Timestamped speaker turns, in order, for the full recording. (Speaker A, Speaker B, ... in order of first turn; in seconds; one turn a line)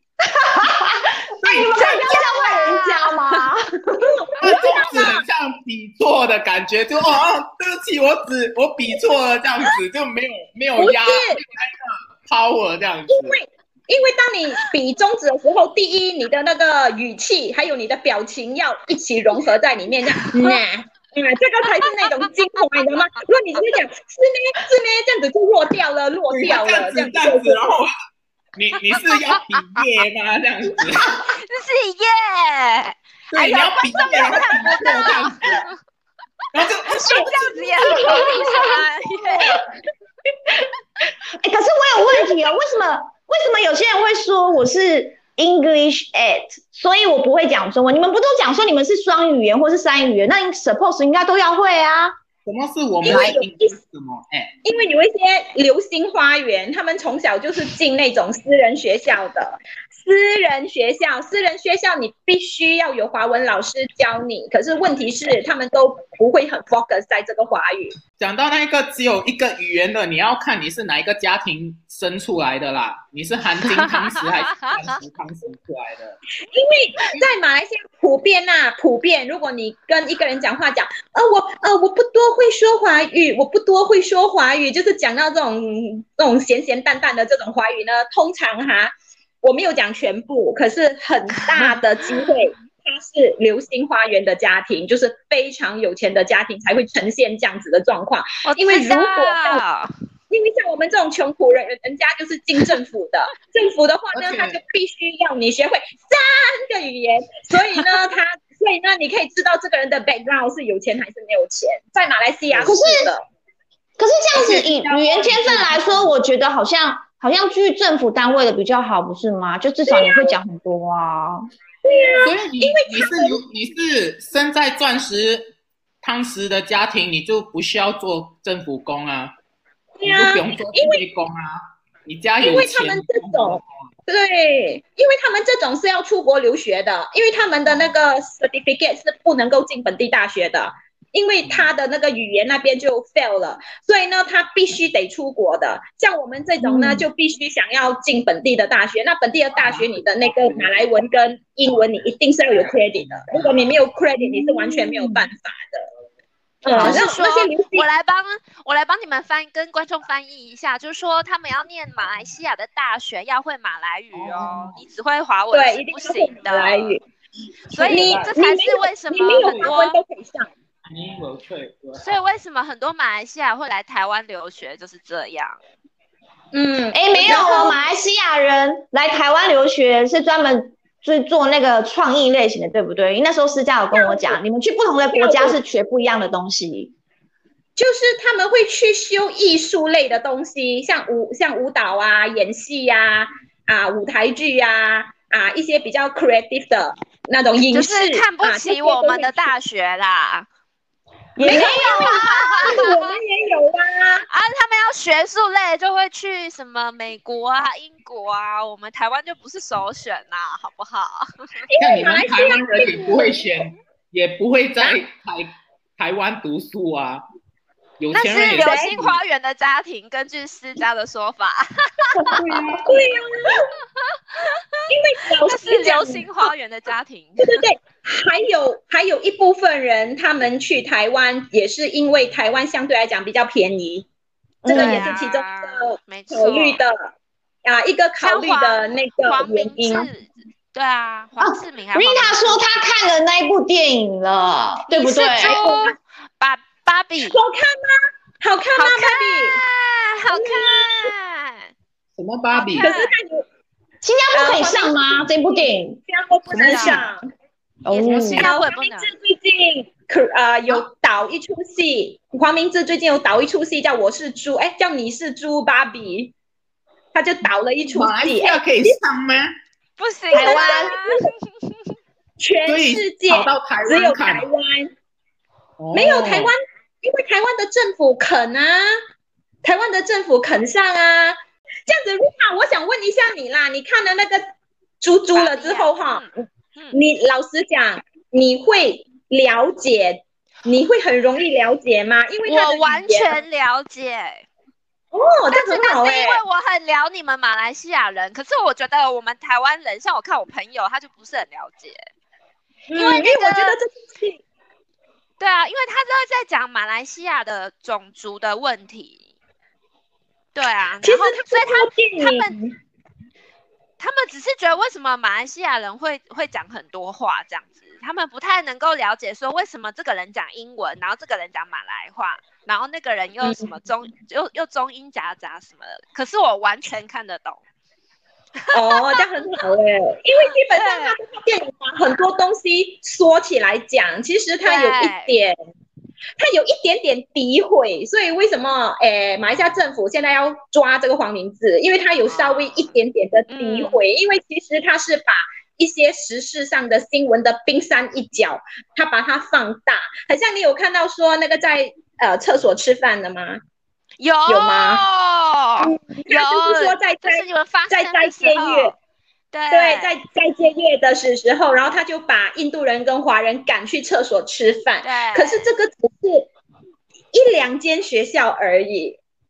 Speaker A: 0.2-4.1
Speaker B: 1.4-1.8
Speaker C: 1.7-3.2
Speaker D: 1.8-2.4
Speaker D: 4.0-5.2
Speaker B: 4.4-13.4
Speaker D: 10.8-11.4
Speaker D: 13.1-27.7
Speaker C: 21.7-22.3
Speaker B: 26.3-27.9
Speaker B: 28.6-31.3
Speaker C: 28.9-29.8
Speaker C: 31.2-35.7
Speaker B: 33.3-35.6
Speaker D: 34.2-35.2
Speaker B: 36.5-38.3
Speaker C: 36.9-39.6
Speaker D: 36.9-39.6
Speaker A: 38.1-38.8
Speaker A: 41.3-52.1
Speaker B: 52.4-54.5
Speaker D: 53.0-53.8
Speaker A: 53.1-53.4
Speaker D: 54.6-67.9
Speaker B: 68.2-76.2
Speaker C: 73.6-74.7
Speaker D: 76.5-99.6
Speaker C: 91.5-92.3
Speaker C: 98.4-99.9
Speaker D: 100.3-113.2
Speaker B: 104.1-104.6
Speaker B: 112.5-112.8
Speaker A: 112.7-113.1
Speaker A: 114.0-121.4
Speaker B: 114.3-116.1
Speaker D: 119.9-120.3
Speaker D: 121.8-123.4
Speaker B: 122.2-129.3
Speaker D: 130.0-131.0
Speaker B: 130.0-133.6
Speaker D: 132.4-155.8
Speaker A: 146.6-147.0
Speaker B: 149.6-150.9
Speaker B: 152.6-153.7
Speaker A: 154.2-155.2
Speaker D: 156.6-157.8
Speaker A: 156.7-157.0
Speaker C: 156.7-167.0
Speaker B: 164.1-164.8
Speaker D: 165.5-167.0
Speaker B: 167.7-168.3
Speaker C: 167.7-170.0
Speaker D: 167.9-170.5
Speaker B: 169.3-169.7
Speaker B: 170.8-172.1
Speaker C: 172.0-175.6
Speaker D: 176.5-177.8
Speaker A: 176.9-186.9
Speaker D: 183.9-184.4
Speaker D: 185.1-185.6
Speaker D: 187.8-199.6
Speaker C: 197.7-200.4
Speaker A: 201.3-202.9
Speaker D: 201.4-204.3
Speaker C: 201.4-203.2
Speaker C: 204.3-211.3
Speaker D: 211.6-213.5
Speaker B: 211.8-217.2
Speaker B: 218.0-219.2
Speaker C: 218.1-222.3
Speaker D: 218.6-219.0
Speaker B: 222.3-223.0
Speaker D: 222.8-223.7
Speaker D: 224.9-226.5
Speaker C: 225.4-227.6
Speaker D: 227.4-234.1
Speaker A: 234.6-235.2
Speaker C: 234.7-236.8
Speaker D: 234.7-237.1
Speaker D: 237.6-240.1
Speaker C: 238.2-242.6
Speaker A: 241.4-245.6
Speaker C: 244.9-247.4
Speaker D: 245.4-245.9
Speaker D: 247.2-249.6
Speaker C: 248.8-251.7
Speaker D: 250.3-251.1
Speaker B: 252.2-252.9
Speaker C: 252.5-253.1
Speaker D: 252.8-253.4
Speaker A: 254.0-256.0
Speaker D: 254.3-257.2
Speaker A: 256.5-257.1
Speaker C: 256.5-257.0
Speaker A: 257.8-258.5
Speaker C: 257.9-259.1
Speaker D: 258.4-266.3
Speaker D: 267.1-269.0
Speaker B: 267.9-269.5
Speaker C: 270.0-271.8
Speaker A: 270.3-270.9
Speaker D: 270.3-271.3
Speaker D: 272.4-274.9
Speaker B: 272.7-274.5
Speaker B: 275.8-276.5
Speaker D: 275.9-278.9
Speaker D: 279.6-284.4
Speaker D: 285.0-286.2
Speaker C: 285.3-286.9
Speaker D: 286.9-293.4
Speaker C: 292.4-294.4
Speaker D: 295.1-296.4
Speaker C: 295.5-302.0
Speaker D: 302.9-304.4
Speaker C: 302.9-303.8
Speaker C: 305.4-309.2
Speaker C: 310.5-312.5
Speaker D: 311.0-312.8
Speaker C: 314.0-327.6
Speaker D: 323.4-323.7
Speaker C: 328.6-329.6
Speaker D: 328.7-335.5
Speaker C: 330.7-331.2
Speaker C: 334.6-335.3
Speaker D: 336.4-353.6
Speaker C: 342.3-342.9
Speaker C: 343.5-344.0
Speaker C: 354.2-358.9
Speaker D: 354.5-355.0
Speaker D: 355.8-358.9
Speaker C: 359.5-360.1
Speaker D: 359.7-366.5
Speaker C: 365.0-365.6
Speaker D: 367.3-369.2